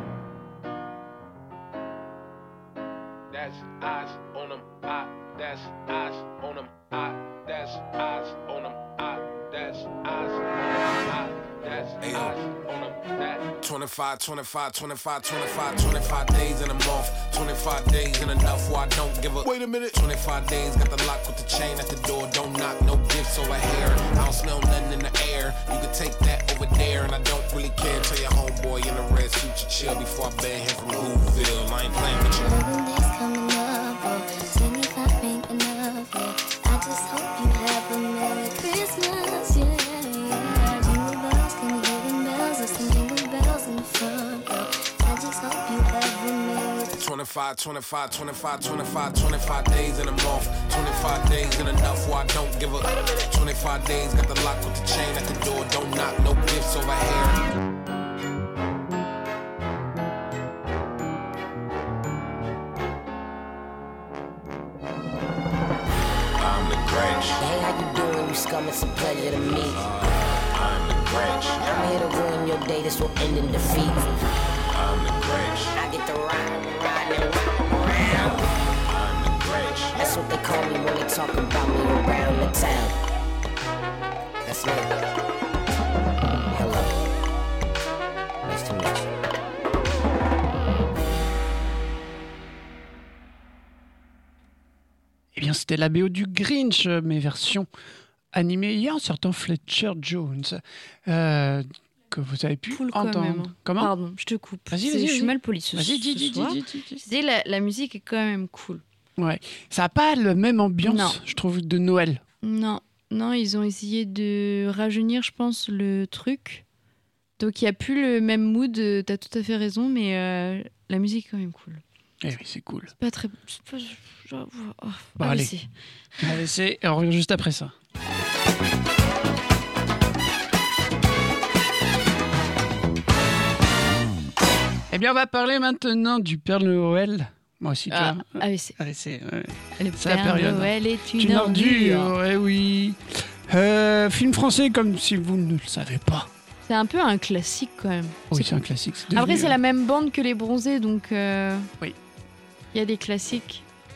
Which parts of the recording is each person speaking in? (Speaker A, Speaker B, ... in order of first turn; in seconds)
Speaker A: 3.3-10.4, 11.1-32.5, 47.0-57.4, 66.4-67.4, 69.7-71.9, 74.7-75.8, 78.8-80.2
Speaker B: 32.3-47.0
Speaker C: 67.4-69.9, 71.6-74.1, 75.8-78.4, 79.9-83.0, 84.5-84.9, 86.5-86.9, 88.4-89.0
Speaker D: 95.3-97.7, 98.3-103.9, 104.7-107.0, 109.2-112.2, 122.2-122.9, 125.2-125.5, 126.2-127.7, 134.9-146.3, 148.3-149.6
Speaker E: 102.7-108.8, 110.8-111.2, 112.4-116.6, 117.4-121.8, 123.0-125.7, 137.9-138.8, 139.8-142.1, 146.7-148.5, 149.1-151.7, 152.7-153.6